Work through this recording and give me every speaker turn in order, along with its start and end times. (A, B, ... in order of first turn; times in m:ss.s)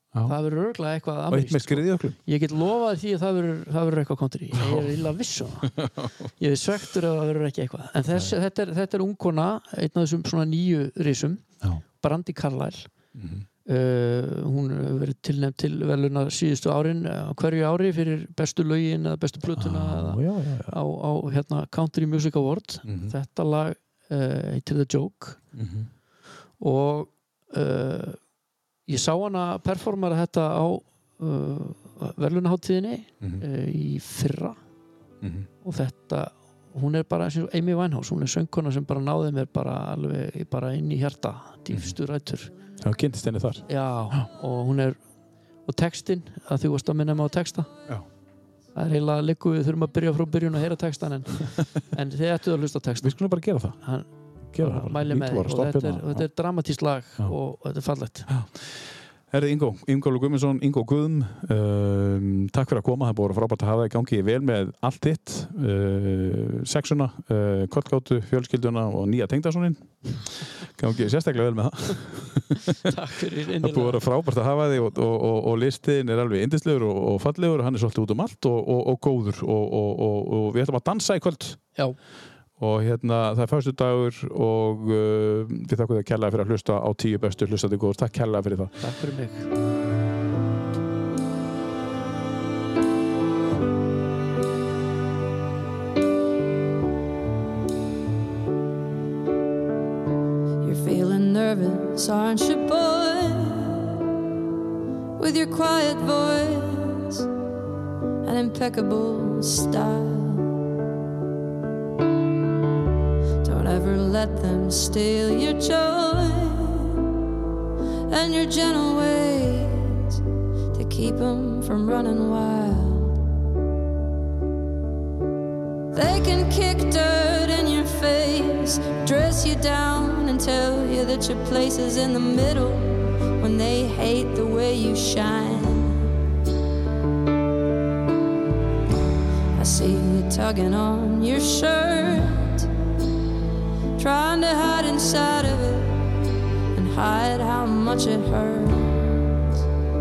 0:00.2-0:05.8 A
0:01.3-0:02.2 B
0:04.5-0:04.9 B
0:05.6-0:06.1 B
0:06.4-0:11.4 A
0:12.0-0:12.9 A
0:13.1-0:13.4 B
0:13.6-0:25.4 A
0:19.5-0:20.8 B
0:22.8-0:23.1 B
0:25.5-0:25.9 B
0:26.6-0:28.2 A
0:28.9-0:34.6 A
0:35.2-0:35.5 B
0:35.6-0:42.5 A
0:41.7-0:41.9 B
0:42.8-0:44.2 B
0:43.7-0:45.0 A
0:45.6-0:47.7 A
0:48.7-0:53.2 A
0:53.0-0:53.8 B
0:53.8-0:54.1 A
0:54.5-0:56.2 B
0:54.6-0:58.3 A
0:58.3-0:58.7 B
0:59.3-1:12.9 B
1:12.7-1:14.0 A
1:13.6-1:21.6 B
1:22.6-1:28.8 B
1:28.8-1:29.5 A
1:40.6-1:44.1 C
1:45.2-1:47.3 C
1:48.2-1:50.5 C
1:53.4-1:57.1 C
1:58.1-2:00.2 C
2:00.7-2:03.2 C
2:05.9-2:16.2 C
2:19.5-2:22.7 C
2:24.0-2:26.2 C
2:26.7-2:29.4 C